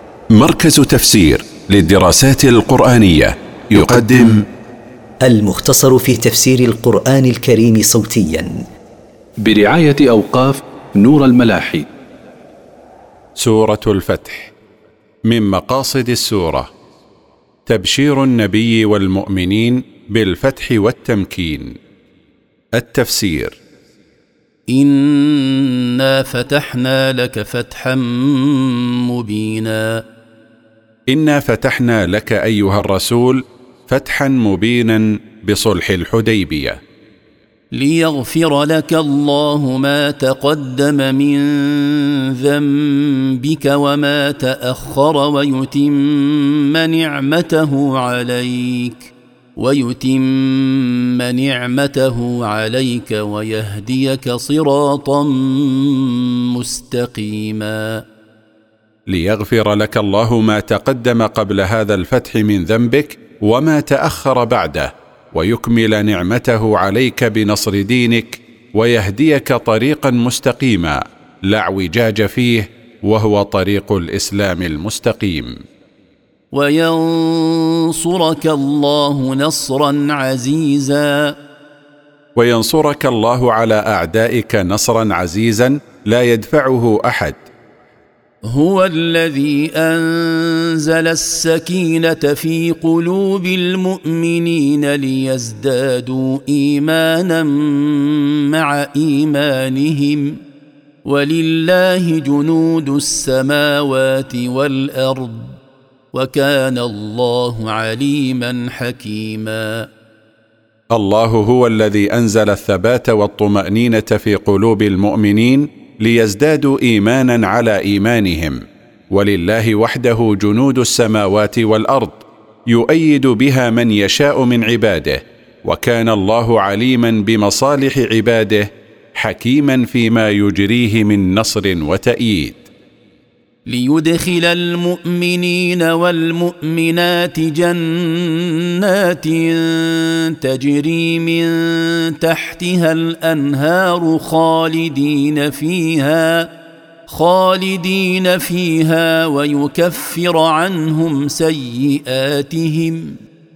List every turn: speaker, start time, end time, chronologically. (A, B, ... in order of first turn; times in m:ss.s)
0:00.3-0:04.4 A
0:05.2-0:08.6 B
0:09.4-0:11.9 C
0:13.4-0:14.5 A
0:15.3-0:16.7 A
0:17.6-0:21.8 A
0:22.7-0:23.6 A
0:24.7-0:30.0 D
0:31.1-0:36.8 A
0:37.7-0:58.0 D
0:59.1-1:15.6 A
1:16.5-1:21.4 D
1:22.4-1:27.4 A
1:28.4-1:40.4 D
1:41.0-1:45.6 D
1:46.1-1:49.9 D
1:50.9-2:12.6 A
2:13.6-2:26.5 D
2:27.1-2:33.2 D